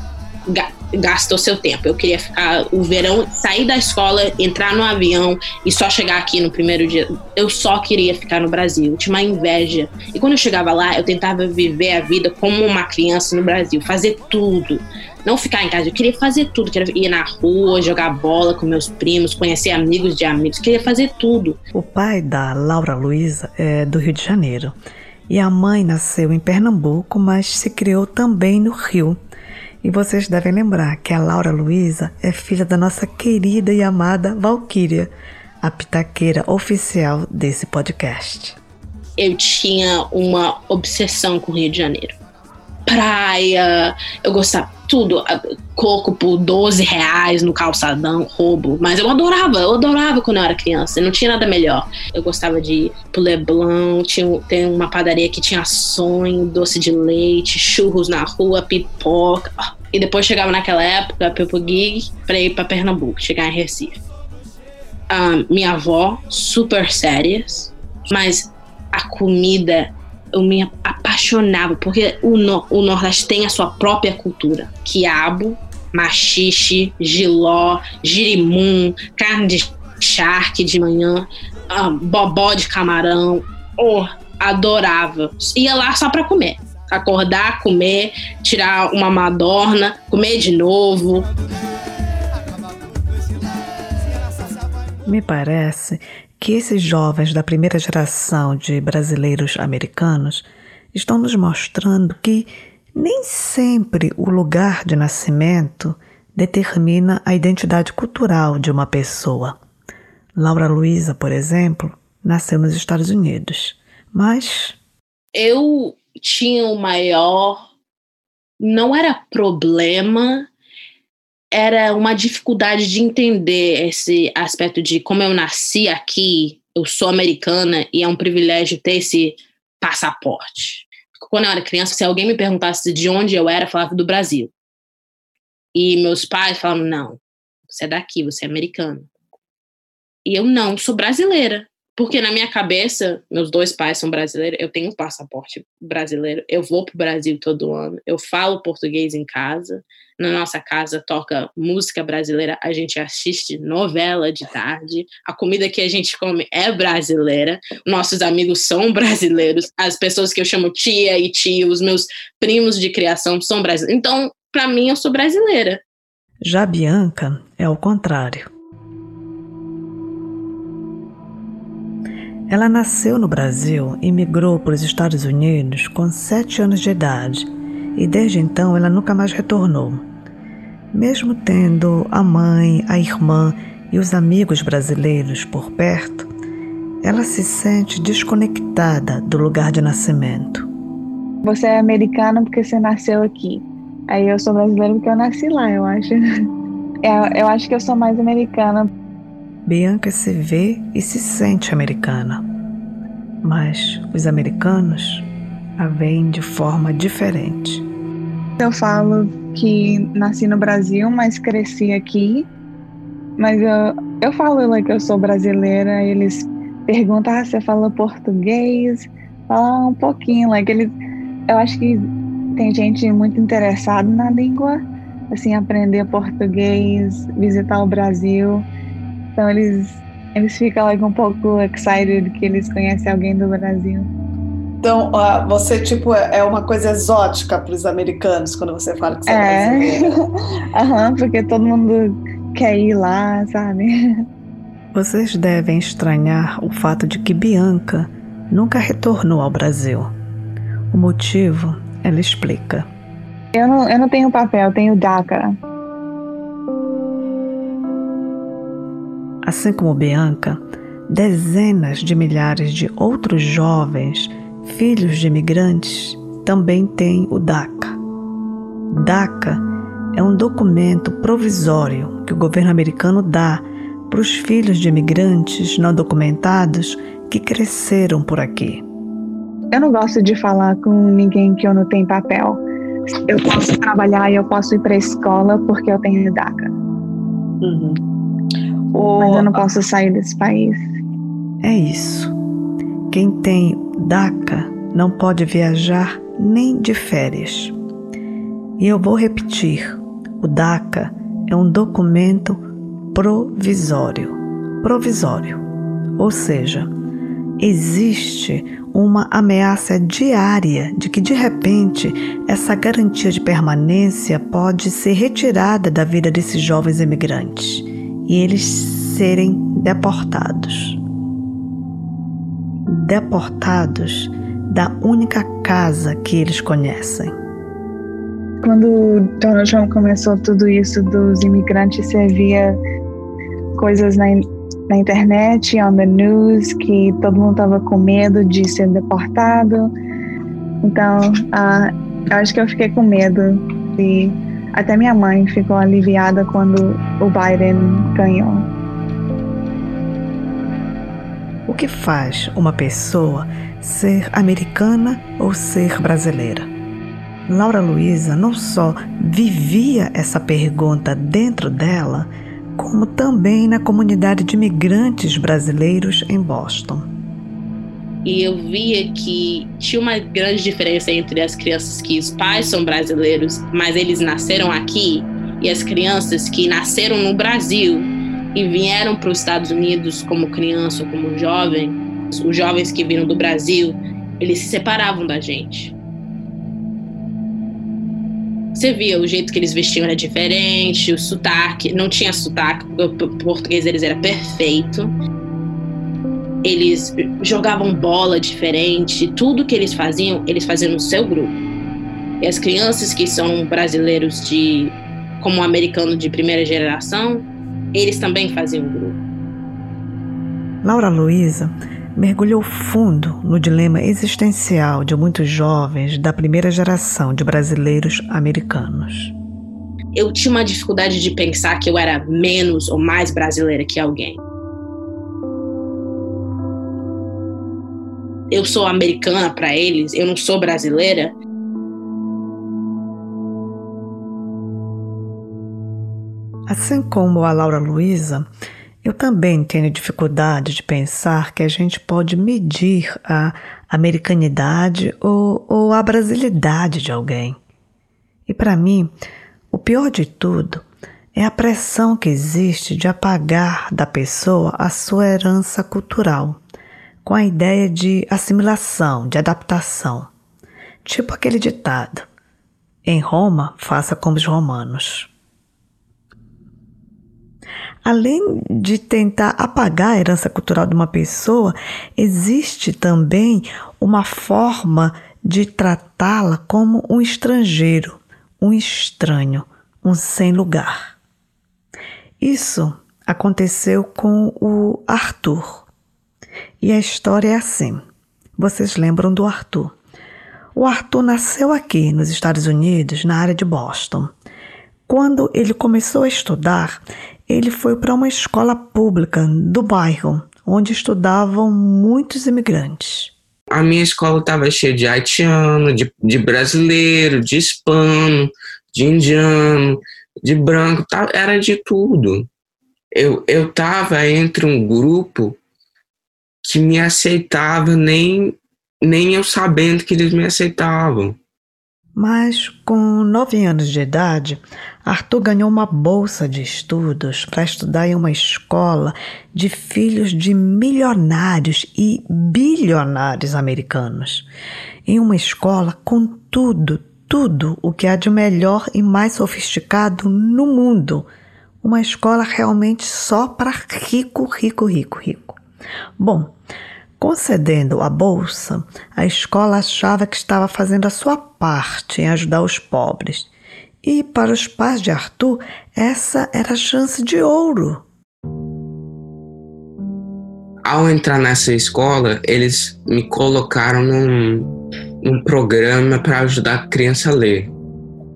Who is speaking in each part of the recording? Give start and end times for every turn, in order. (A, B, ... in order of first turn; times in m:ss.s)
0:00.5-0:21.6 A
0:21.7-0:24.7 B
0:25.3-0:29.2 B
0:29.8-0:38.6 B
0:39.2-0:42.2 A
0:42.8-1:04.0 A
1:05.1-1:31.3 A
1:35.0-1:49.6 B
1:50.4-1:54.8 B
1:55.3-1:57.6 A
1:58.6-2:00.5 A
2:01.5-2:14.5 A
2:15.7-2:19.1 A
2:20.2-2:45.8 A
2:46.4-2:48.5 B
2:52.5-3:00.0 B
3:00.9-3:06.3 B
3:07.0-3:10.7 B
3:11.4-3:16.2 C
3:17.0-3:18.9 C
3:19.6-3:22.4 B
3:23.4-3:25.2 B
3:25.8-3:27.8 B
3:28.6-3:32.5 C
3:33.4-3:40.9 C
3:41.5-3:42.0 C
3:42.6-3:48.6 C
3:49.4-3:54.1 C
3:54.8-4:00.2 D
3:59.3-4:00.0 C
4:00.8-4:03.9 C
4:04.9-4:10.1 B
4:10.9-4:12.9 B
4:13.5-4:15.6 C
4:19.4-4:28.0 B
4:28.9-4:38.8 B
4:39.7-4:42.6 C
4:43.3-4:46.7 C
4:47.6-4:48.0 D
4:48.9-4:49.6 D
4:49.2-4:50.8 C
4:51.6-4:52.3 B
4:53.1-4:57.7 B
4:58.8-5:02.6 B
5:03.1-5:05.6 B
5:06.2-5:06.9 B
5:07.6-5:21.0 B
5:22.8-5:27.3 B
5:28.6-5:32.8 C
5:33.8-5:39.9 C
5:40.8-5:48.6 C
5:51.6-5:56.7 B
5:57.5-6:07.1 B
6:08.2-6:25.9 A
6:28.7-6:35.1 A
6:36.6-6:41.6 A
6:42.4-6:49.2 A
6:50.8-6:59.3 B
7:00.1-7:04.4 A
7:08.5-7:11.3 A
7:16.7-7:18.5 B
7:19.0-7:27.6 B
7:28.5-7:29.1 B
7:29.7-7:36.6 B
7:37.2-7:40.3 B
7:41.0-7:42.3 B
7:43.0-7:45.3 B
7:48.0-8:01.2 B
8:02.4-8:05.9 B
8:06.8-8:08.0 B
8:08.6-8:09.9 B
8:10.7-8:14.3 B
8:15.1-8:23.3 B
8:23.7-8:32.5 E
8:33.1-8:35.6 E
8:36.6-8:41.4 E
8:42.2-8:54.5 B
8:55.0-9:01.3 B
9:01.8-9:05.6 B
9:06.2-9:06.5 B
9:07.2-9:13.5 B
9:14.0-9:18.0 B
9:20.8-9:24.7 E
9:25.2-9:27.7 E